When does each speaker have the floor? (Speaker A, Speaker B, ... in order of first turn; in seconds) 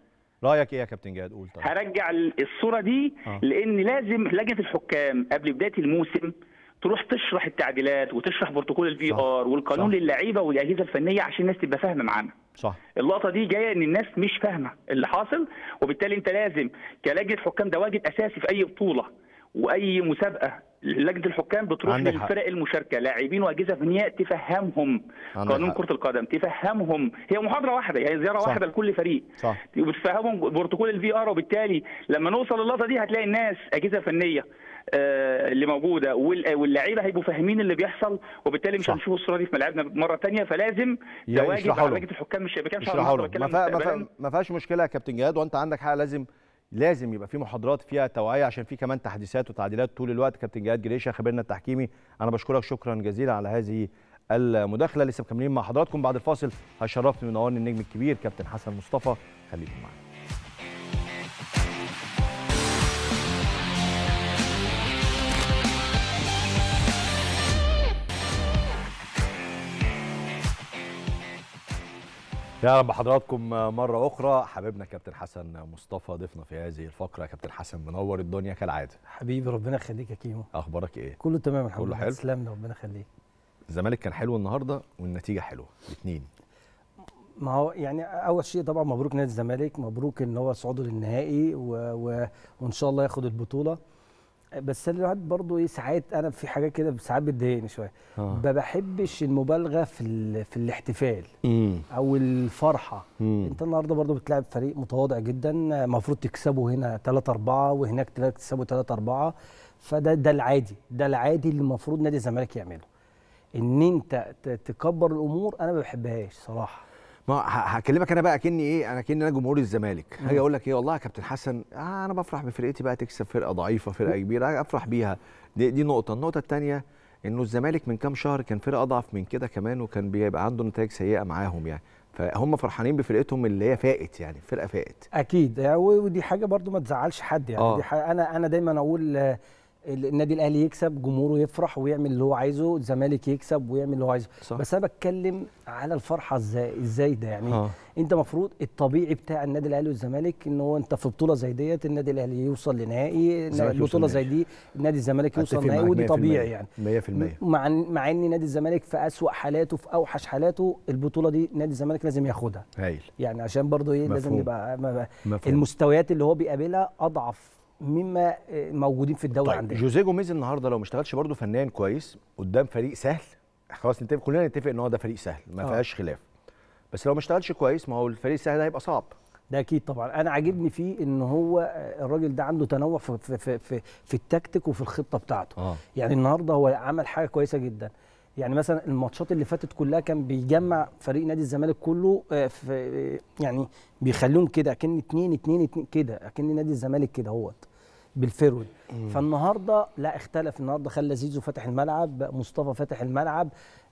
Speaker A: 0.4-1.7, 9.1-9.9, 21.9-22.3, 25.4-25.8, 41.3-42.0, 42.8-60.0, 72.6-79.0, 80.5-81.2, 81.8-82.2, 83.7-86.3, 98.2-98.4, 101.4-101.8, 103.2-103.5, 117.3-135.1, 137.6-137.8, 147.5-147.7, 153.5-154.3, 155.3-157.4, 162.8-163.1, 164.1-164.5, 165.2-165.6, 169.4-176.2, 176.9-179.1, 198.9-199.2
Speaker B: 1.6-12.3, 13.0-44.0
Speaker C: 79.1-80.5, 81.2-83.0, 87.4-93.8, 94.6-101.3, 101.9-112.8, 113.6-116.8, 135.1-139.4, 139.9-162.7, 163.2-169.8, 179.5-197.7, 198.2-203.5